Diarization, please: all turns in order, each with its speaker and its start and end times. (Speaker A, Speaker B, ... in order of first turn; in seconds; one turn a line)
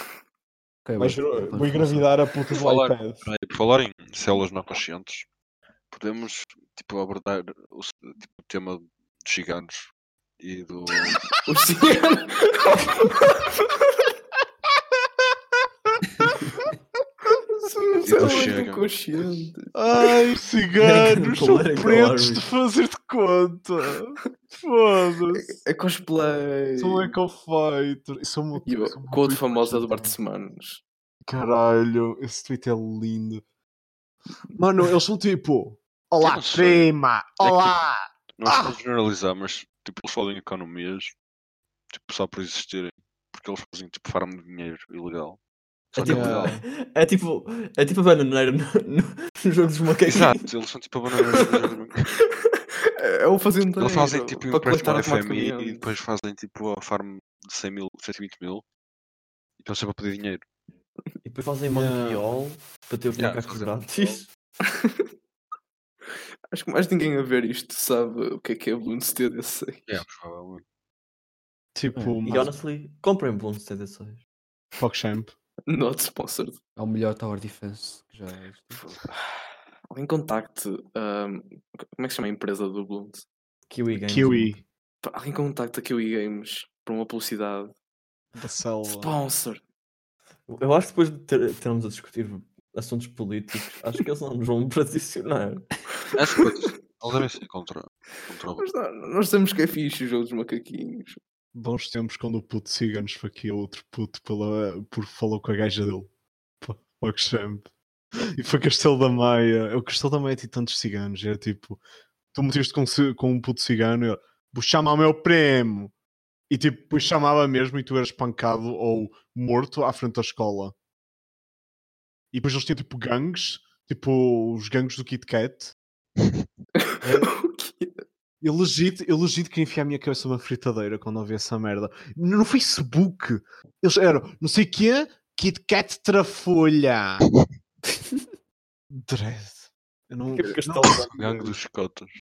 Speaker A: 0.8-2.1
Speaker B: 1.0-3.3
Speaker C: 2.5-5.3
Speaker C: 5.9-11.3
Speaker D: 11.5-13.9
Speaker A: 16.2-16.5
Speaker D: 17.6-20.2
Speaker C: 18.0-18.9
Speaker B: 19.8-25.6
Speaker E: 20.8-22.5
Speaker D: 25.3-27.1
Speaker B: 26.8-30.1
Speaker D: 28.6-30.8
Speaker B: 31.3-33.4
Speaker B: 34.5-38.8
Speaker C: 36.2-36.9
Speaker C: 37.4-37.8
Speaker C: 38.4-41.1
Speaker C: 41.9-45.4
Speaker C: 45.9-46.6
Speaker B: 46.0-46.6
Speaker E: 46.0-50.4
Speaker C: 50.1-52.1
Speaker D: 51.3-51.6
Speaker D: 52.9-55.9
Speaker C: 53.8-58.6
Speaker C: 59.6-60.5
Speaker E: 61.2-64.3
Speaker B: 61.7-62.2
Speaker C: 63.2-64.2
Speaker D: 64.7-65.0
Speaker D: 66.5-70.0
Speaker C: 69.9-70.6
Speaker B: 71.8-72.5
Speaker A: 71.9-72.5
Speaker E: 72.2-74.2
Speaker B: 74.8-75.3
Speaker D: 75.7-76.6
Speaker A: 76.8-78.9
Speaker D: 79.9-83.3
Speaker E: 83.7-84.6
Speaker B: 83.9-84.6
Speaker D: 85.0-87.7
Speaker B: 88.3-89.1
Speaker D: 88.8-89.6
Speaker E: 90.5-95.7
Speaker D: 96.1-96.5
Speaker C: 96.1-98.7
Speaker D: 98.6-101.2
Speaker B: 101.5-106.1
Speaker B: 106.6-107.7
Speaker B: 108.4-111.8
Speaker B: 112.3-115.9
Speaker B: 116.5-120.7
Speaker B: 122.3-125.7
Speaker D: 126.8-128.0
Speaker B: 127.0-127.3
Speaker B: 128.4-137.3
Speaker B: 138.9-141.6
Speaker E: 140.3-141.1
Speaker C: 141.1-142.1